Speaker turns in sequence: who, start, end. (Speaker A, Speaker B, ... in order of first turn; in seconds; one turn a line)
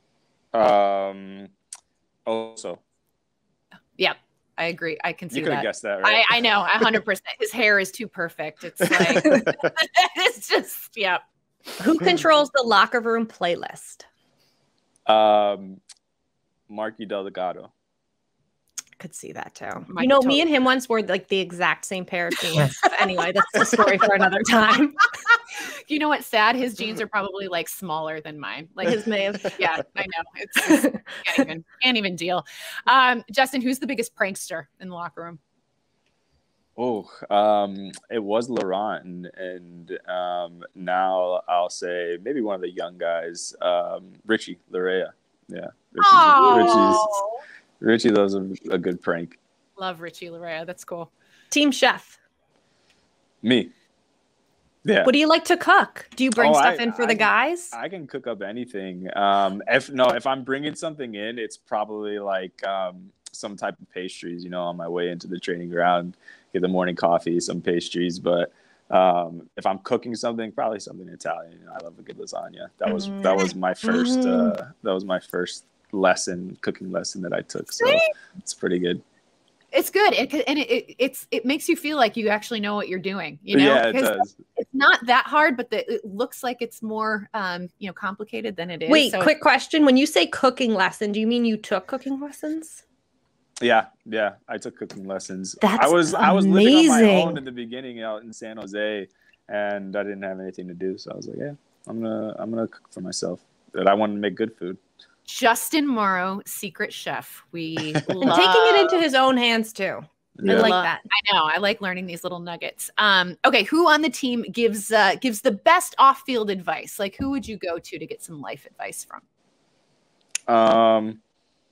Speaker A: 0.5-1.5
Speaker A: 2.2-2.8
Speaker B: 4.0-11.2
Speaker A: 5.3-6.4
Speaker A: 8.8-9.5
Speaker C: 11.8-14.1
Speaker A: 15.1-15.8
Speaker A: 16.7-17.7
Speaker C: 19.0-24.9
Speaker B: 19.9-20.4
Speaker B: 23.6-35.4
Speaker C: 28.9-29.6
Speaker A: 36.8-47.1
Speaker B: 46.0-47.4
Speaker A: 47.8-49.4
Speaker B: 49.8-51.1
Speaker C: 51.5-52.2
Speaker A: 53.4-53.7
Speaker A: 54.8-55.1
Speaker C: 55.0-57.7
Speaker A: 56.4-79.0
Speaker C: 72.9-74.5
Speaker B: 77.8-78.0
Speaker B: 79.7-89.3
Speaker A: 83.5-84.4
Speaker C: 88.9-92.8
Speaker A: 93.6-104.8
Speaker C: 95.6-97.4
Speaker B: 105.2-109.0
Speaker A: 108.1-108.4
Speaker C: 108.2-111.0
Speaker A: 110.4-110.8
Speaker B: 110.4-119.2
Speaker A: 120.5-121.2